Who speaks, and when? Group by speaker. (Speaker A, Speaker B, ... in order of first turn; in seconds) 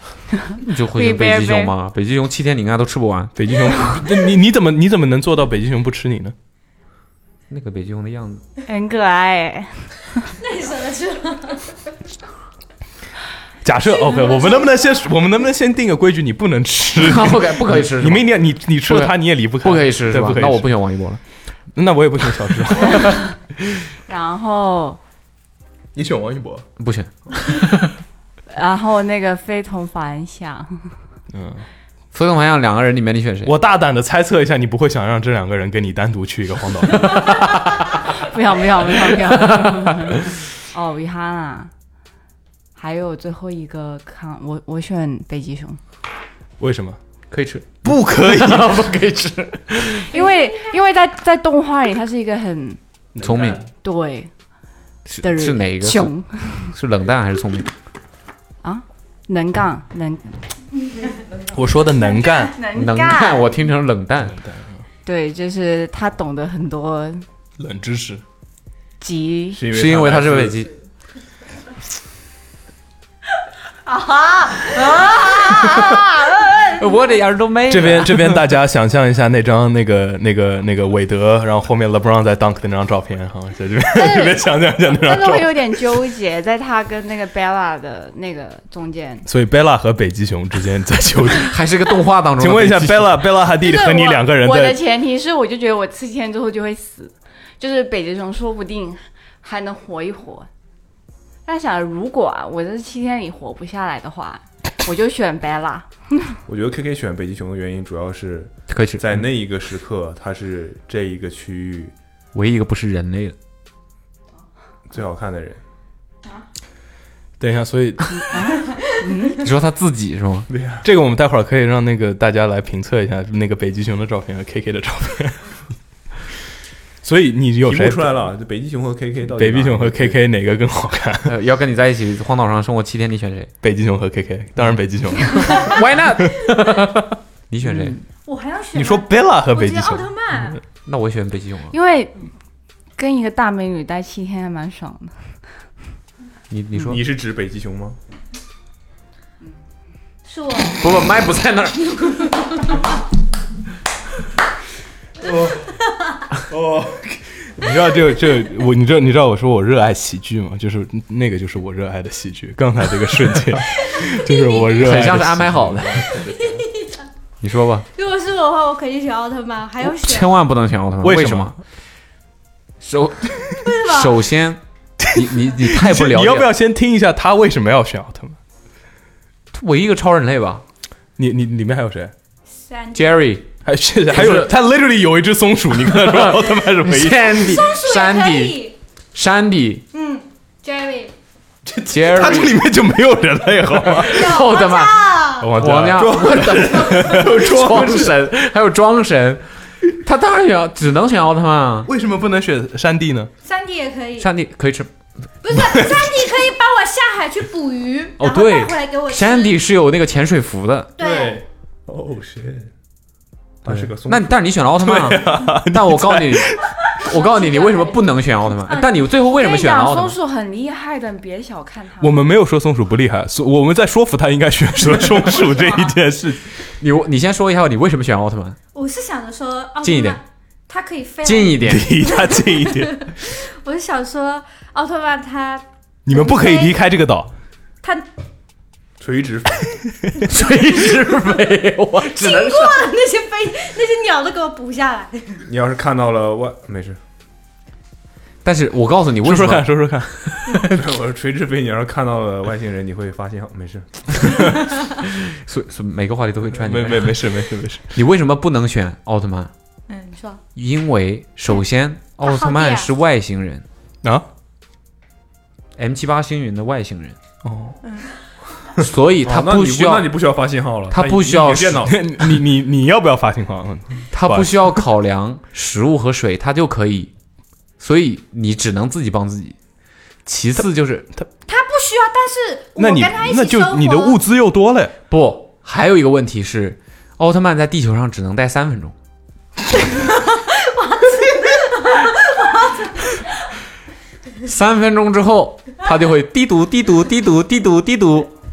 Speaker A: 0.3-1.7, 8.7-10.3, 24.1-25.0, 28.5-31.0, 38.1-41.7, 42.8-45.8, 50.1-52.8, 53.8-54.3, 55.2-56.8, 58.6-60.6, 62.4-63.5, 65.0-67.3, 69.0-69.7, 73.9-76.8, 84.9-89.3, 93.6-100.5, 101.5-106.4, 118.3-119.4, 137.6-138.0, 141.7-142.3, 143.0-145.7, 219.3-222.2
Speaker B: 0.6-4.0, 7.5-8.4, 17.0-18.3, 18.8-21.2, 26.8-27.9, 32.1-33.5, 37.3-37.8, 39.2-40.2, 47.3-50.2, 53.2-53.6, 55.1-57.7, 62.7-64.4, 69.7-70.7, 74.8-76.0, 76.7-78.5, 91.5-93.4, 108.7-109.0, 112.3-113.4, 119.3-120.5, 131.2-133.5, 135.3-138.0, 140.8-141.8, 146.5-147.0, 150.8-152.3, 164.7-166.1, 167.4-167.9, 169.8-171.6, 172.8-174.6, 175.1-176.5, 179.5-180.6, 182.9-183.5, 184.1-184.5, 185.9-188.6, 189.1-189.9, 191.8-192.6, 194.0-201.9, 204.2-204.9, 208.2-210.9, 214.1-220.2, 226.7-228.6, 229.8-230.2, 231.2-231.9, 240.3-242.9, 248.4-250.8, 255.4-257.3, 257.9-259.5, 260.6-263.6, 265.8-267.2, 268.8-270.1, 270.9-271.9, 274.1-277.1, 277.8-279.6, 280.3-281.1, 285.1-288.9, 294.4-298.3
Speaker C: 3.4-6.3, 13.6-20.7, 21.8-23.2, 25.9-26.7, 31.3-31.7, 33.5-37.3, 46.6-47.0, 47.8-48.9, 53.1-53.6, 61.5-62.6, 64.2-64.8, 67.6-68.2, 77.7-85.8, 89.3-91.5, 92.4-94.8, 117.4-118.6, 120.8-125.6, 127.0-128.2, 129.4-131.3, 133.6-135.8, 138.7-140.5, 155.2-155.6, 156.5-166.7, 171.0-171.6, 175.0-178.4, 181.2-182.1, 183.7-187.3, 191.7-194.5, 195.4-198.2, 201.9-203.3, 205.6-206.1, 211.0-211.4, 213.7-213.9, 214.8-216.8, 222.0-226.5, 231.6-233.2, 236.1-237.3, 249.2-250.1, 256.5-258.0, 267.4-267.8, 271.9-274.7, 282.8-284.9
Speaker D: 10.4-11.7, 13.9-14.9, 50.1-50.7, 138.1-140.6, 150.2-151.2, 163.7-164.7, 166.1-167.1, 167.9-170.3, 173.6-174.3, 182.5-183.3, 187.2-188.8, 189.9-191.1, 194.0-195.6, 196.5-197.7, 203.4-204.3, 205.4-209.6, 211.0-211.4, 216.8-219.2, 225.5-225.9, 228.7-236.9, 237.8-238.1, 240.4-241.2, 242.0-245.4, 259.9-260.4, 262.2-262.9, 281.5-284.2, 289.8-293.5
Speaker E: 69.5-70.7, 106.5-111.9, 114.9-115.6, 120.5-120.9, 127.6-130.2, 146.8-148.0, 211.9-212.7, 213.7-214.4, 239.0-239.8, 245.5-247.0, 250.7-254.4, 269.2-272.1